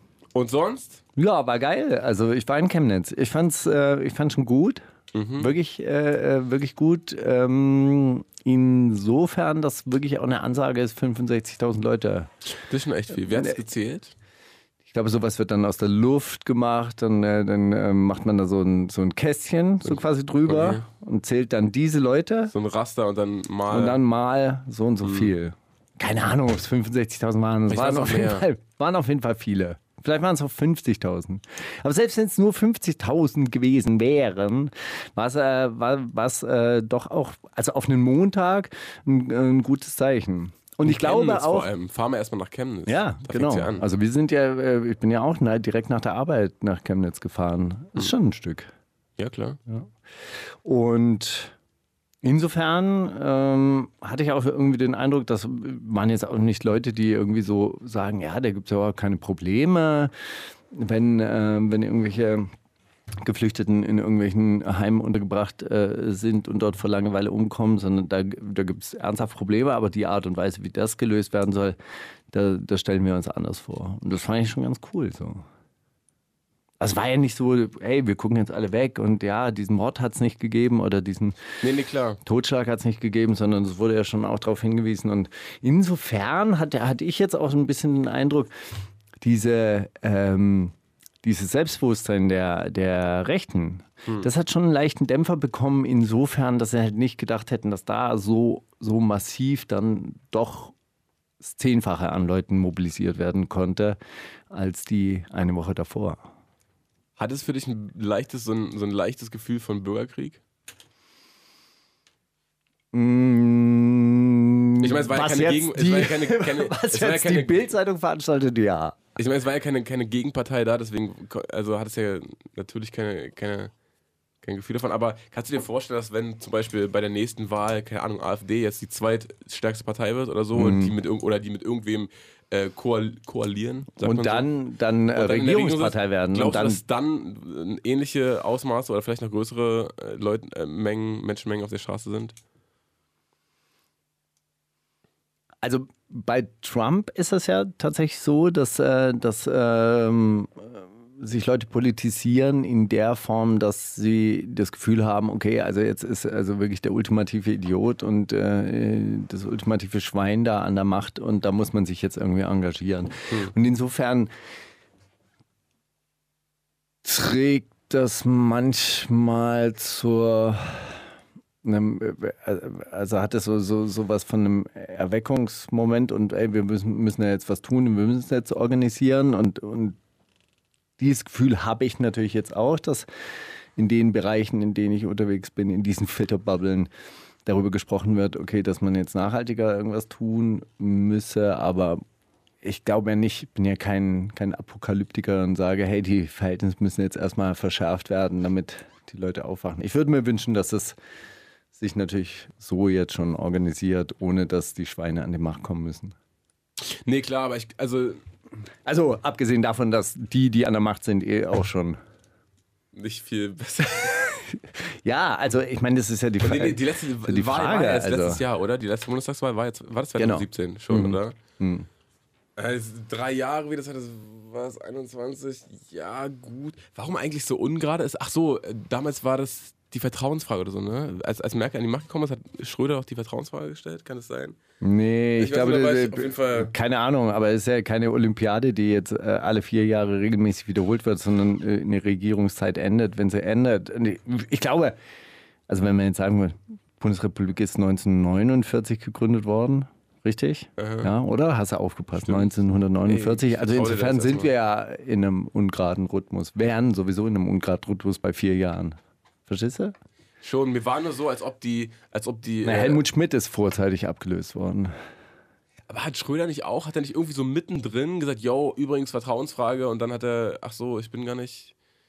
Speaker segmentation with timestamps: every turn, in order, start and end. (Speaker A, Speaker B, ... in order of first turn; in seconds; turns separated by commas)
Speaker A: 0.3-1.0, Speaker B: 1.2-4.8, Speaker A: 5.1-5.5, Speaker B: 5.4-12.3, Speaker A: 12.6-14.1, Speaker B: 13.2-13.6, Speaker B: 14.9-22.5, Speaker A: 19.9-20.9, Speaker A: 22.5-24.0, Speaker B: 23.7-41.7, Speaker A: 25.0-25.3, Speaker A: 27.7-28.5, Speaker A: 40.8-43.9, Speaker B: 42.9-48.7, Speaker A: 49.2-49.6, Speaker B: 50.6-51.5, Speaker B: 52.2-60.1, Speaker B: 60.7-62.5, Speaker B: 63.2-71.8, Speaker B: 72.3-75.4, Speaker B: 76.8-81.4, Speaker A: 81.6-82.2, Speaker B: 82.2-88.5, Speaker B: 89.2-100.8, Speaker B: 101.4-104.0, Speaker B: 104.5-106.2, Speaker A: 107.2-110.4, Speaker B: 112.9-119.0, Speaker A: 114.8-117.6, Speaker A: 119.2-123.7, Speaker A: 124.4-134.5, Speaker B: 130.6-130.9, Speaker B: 134.0-136.8, Speaker A: 135.2-142.4, Speaker B: 145.6-164.3, Speaker B: 167.0-171.0, Speaker B: 171.6-180.0, Speaker B: 181.0-183.1, Speaker B: 183.8-186.9, Speaker B: 187.5-192.0, Speaker B: 192.6-201.0, Speaker B: 201.7-206.2, Speaker A: 206.8-208.2, Speaker B: 208.9-212.0, Speaker A: 212.9-214.4, Speaker B: 215.1-218.4, Speaker A: 216.4-221.4, Speaker B: 220.2-221.9, Speaker A: 222.6-234.6, Speaker B: 234.8-245.0, Speaker A: 235.4-236.7, Speaker B: 245.7-259.9, Speaker A: 250.8-251.1, Speaker A: 252.2-254.5, Speaker A: 260.4-263.0, Speaker B: 262.6-264.9, Speaker A: 265.9-271.7